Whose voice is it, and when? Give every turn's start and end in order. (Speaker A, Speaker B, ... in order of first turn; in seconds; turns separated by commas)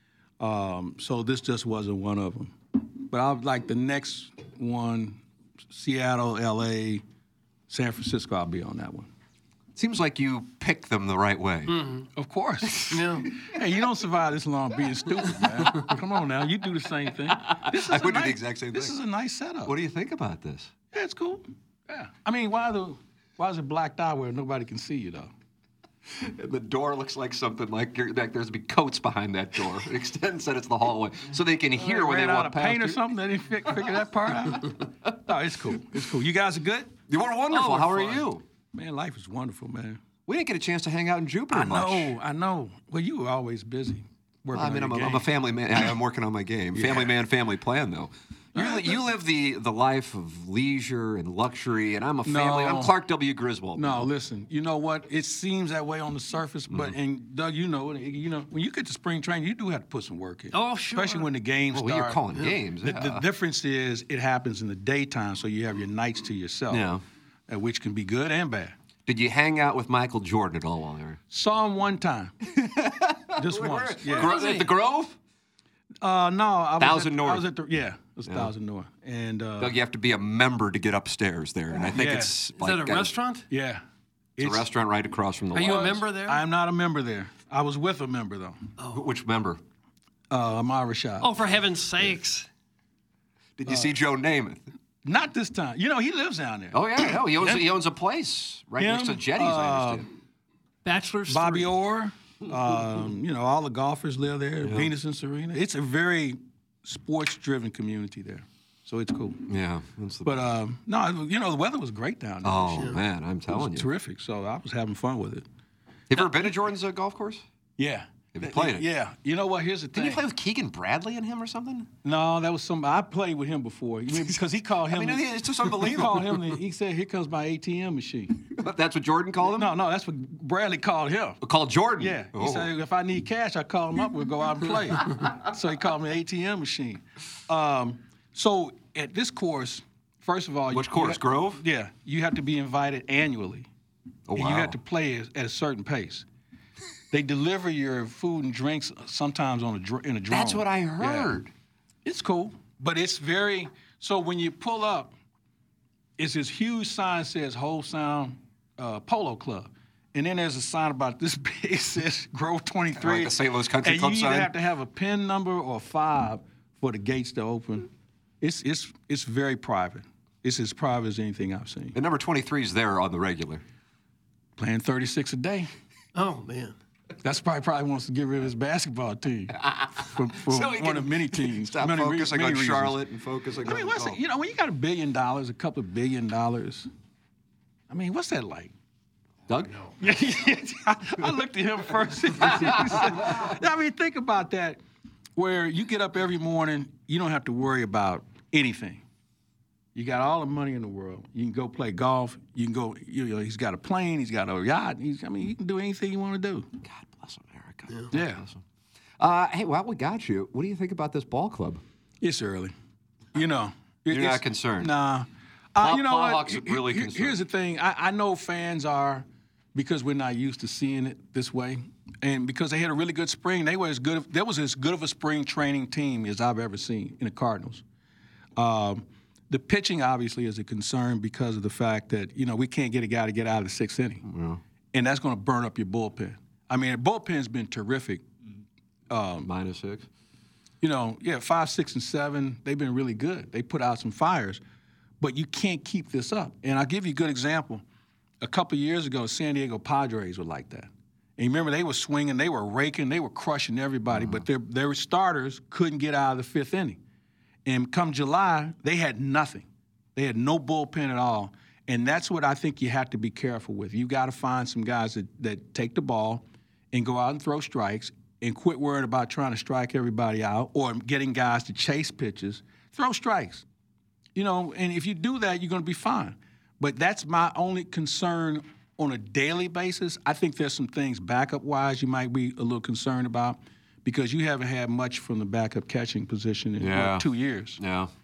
Speaker A: 0.4-2.5, Speaker A: 3.1-5.2, Speaker A: 5.7-7.0, Speaker A: 7.7-9.1, Speaker B: 9.8-11.8, Speaker C: 11.7-12.1, Speaker A: 12.2-19.7, Speaker C: 12.9-13.3, Speaker B: 17.3-18.9, Speaker B: 19.6-20.7, Speaker A: 20.9-25.3, Speaker B: 26.1-33.0, Speaker A: 31.8-36.9, Speaker B: 34.5-34.7, Speaker B: 37.1-38.4, Speaker C: 37.5-38.2, Speaker A: 38.7-40.0, Speaker B: 40.2-42.1, Speaker A: 41.5-45.2, Speaker B: 44.5-54.1, Speaker A: 46.7-47.1, Speaker A: 48.5-49.0, Speaker A: 52.2-52.9, Speaker A: 53.8-62.2, Speaker B: 56.7-56.9, Speaker C: 60.5-61.3, Speaker B: 61.7-63.2, Speaker A: 62.8-66.8, Speaker B: 66.7-67.0, Speaker A: 67.5-68.7, Speaker B: 69.0-71.2, Speaker A: 71.3-72.3, Speaker B: 72.6-75.2, Speaker A: 73.3-74.4, Speaker C: 74.1-74.7, Speaker A: 76.0-79.7, Speaker B: 76.8-77.4, Speaker B: 79.6-83.1, Speaker A: 81.9-82.3, Speaker C: 82.5-83.5, Speaker A: 83.5-83.8, Speaker A: 84.4-84.7, Speaker B: 84.4-86.0, Speaker C: 85.5-86.4, Speaker A: 85.6-88.6, Speaker B: 88.9-89.6, Speaker A: 90.3-91.4, Speaker C: 91.2-92.5, Speaker B: 93.6-94.6, Speaker A: 95.0-97.6, Speaker B: 96.7-100.1, Speaker A: 98.8-100.0, Speaker C: 100.8-101.7, Speaker A: 101.3-109.4, Speaker B: 104.6-104.9, Speaker B: 109.5-110.5, Speaker A: 110.2-115.4, Speaker B: 112.4-113.9, Speaker B: 116.1-117.4, Speaker A: 117.8-120.2, Speaker B: 118.3-118.8, Speaker B: 119.9-121.9, Speaker A: 122.0-128.4, Speaker B: 124.8-126.5, Speaker B: 128.5-129.7, Speaker A: 129.5-131.4, Speaker B: 131.4-132.7, Speaker A: 132.0-143.7, Speaker B: 140.7-141.6, Speaker B: 144.3-144.8, Speaker A: 144.3-146.2, Speaker A: 147.1-151.3, Speaker B: 150.3-151.5, Speaker A: 152.0-155.1, Speaker A: 156.2-167.9, Speaker B: 163.0-164.5, Speaker A: 168.4-171.9, Speaker B: 171.9-173.6, Speaker A: 174.6-175.7, Speaker C: 176.1-176.7, Speaker A: 177.2-183.0, Speaker B: 179.7-184.2, Speaker A: 183.6-186.9, Speaker A: 187.9-188.7, Speaker B: 189.5-189.9, Speaker A: 190.0-194.8, Speaker B: 192.4-193.5, Speaker A: 195.3-199.0, Speaker A: 199.9-206.7, Speaker B: 206.8-208.6, Speaker A: 208.1-208.4, Speaker B: 209.2-211.8, Speaker A: 212.2-212.7, Speaker A: 213.3-227.8, Speaker B: 214.1-214.9, Speaker B: 215.8-217.4, Speaker A: 228.6-234.2, Speaker B: 234.2-234.6, Speaker A: 234.9-238.2, Speaker A: 239.1-239.5, Speaker B: 239.4-240.1, Speaker A: 240.8-244.6, Speaker A: 245.2-247.8, Speaker A: 248.4-257.0, Speaker B: 254.1-254.4, Speaker A: 257.6-273.6, Speaker A: 274.3-287.8, Speaker B: 286.8-287.2, Speaker B: 287.8-288.1